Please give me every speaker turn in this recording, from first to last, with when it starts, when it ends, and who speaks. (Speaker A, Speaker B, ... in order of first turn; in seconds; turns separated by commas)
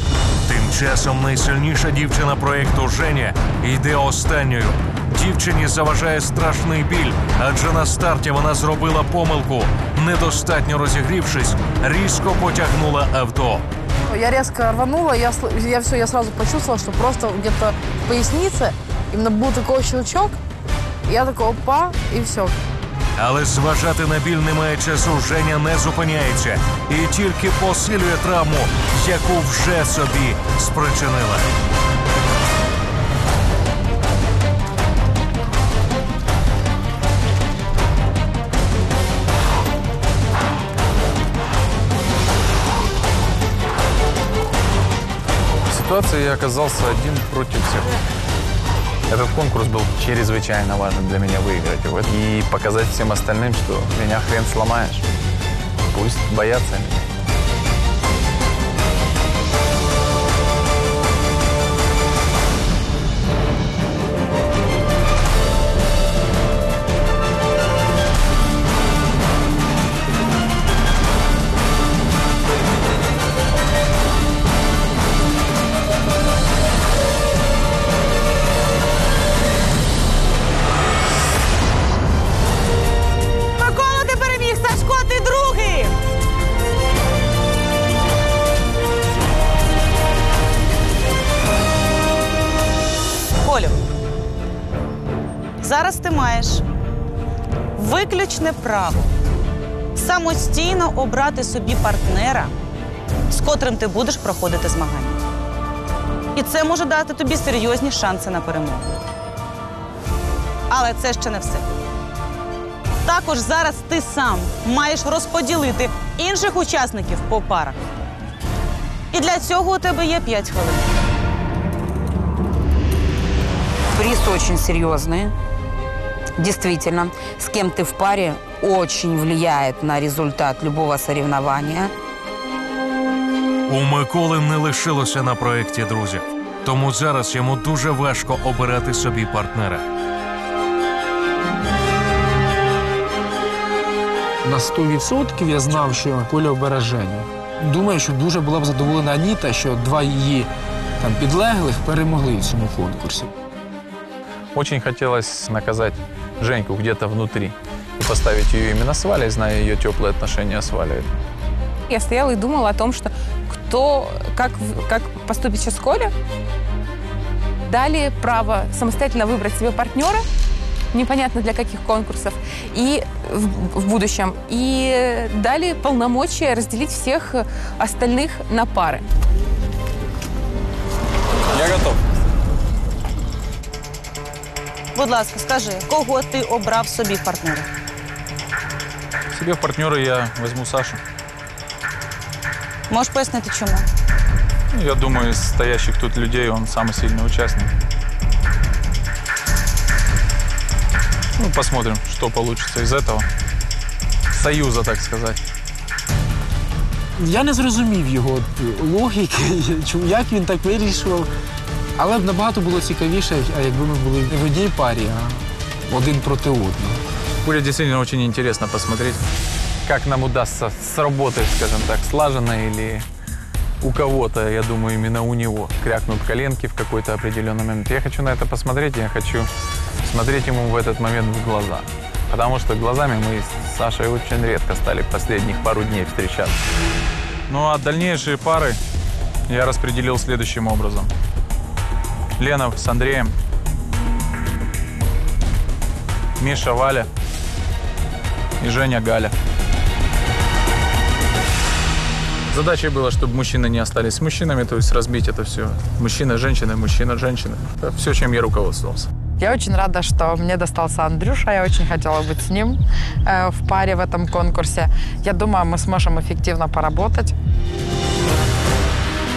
Speaker A: 0.5-13.6, Speaker B: 14.1-20.4, Speaker B: 21.1-22.5, Speaker A: 23.2-31.5, Speaker C: 45.7-47.9, Speaker C: 49.1-55.0, Speaker C: 55.9-57.1, Speaker D: 83.6-86.0, Speaker D: 93.4-93.8, Speaker D: 95.6-96.6, Speaker D: 97.8-99.1, Speaker D: 100.0-102.5, Speaker D: 103.3-105.2, Speaker D: 106.3-108.9, Speaker D: 110.7-111.7, Speaker D: 113.0-118.0, Speaker D: 119.1-120.9, Speaker E: 124.0-125.3, Speaker E: 126.4-131.9, Speaker A: 133.7-139.8, Speaker F: 144.4-153.3, Speaker C: 154.6-161.1, Speaker G: 161.9-166.1, Speaker G: 167.7-170.2, Speaker G: 170.9-179.1, Speaker C: 181.6-182.0, Speaker D: 184.9-187.7, Speaker C: 189.3-191.0, Speaker D: 192.9-193.9, Speaker C: 194.8-197.7, Speaker C: 201.4-203.2, Speaker C: 204.3-205.4, Speaker F: 207.2-211.3, Speaker F: 212.0-217.0, Speaker C: 217.4-219.2, Speaker C: 219.9-223.0, Speaker C: 223.8-229.5, Speaker C: 230.0-236.5, Speaker C: 237.5-238.8, Speaker C: 239.5-241.1, Speaker C: 242.4-243.3, Speaker C: 246.4-247.1, Speaker C: 248.6-249.3, Speaker C: 252.5-259.1, Speaker H: 259.4-267.3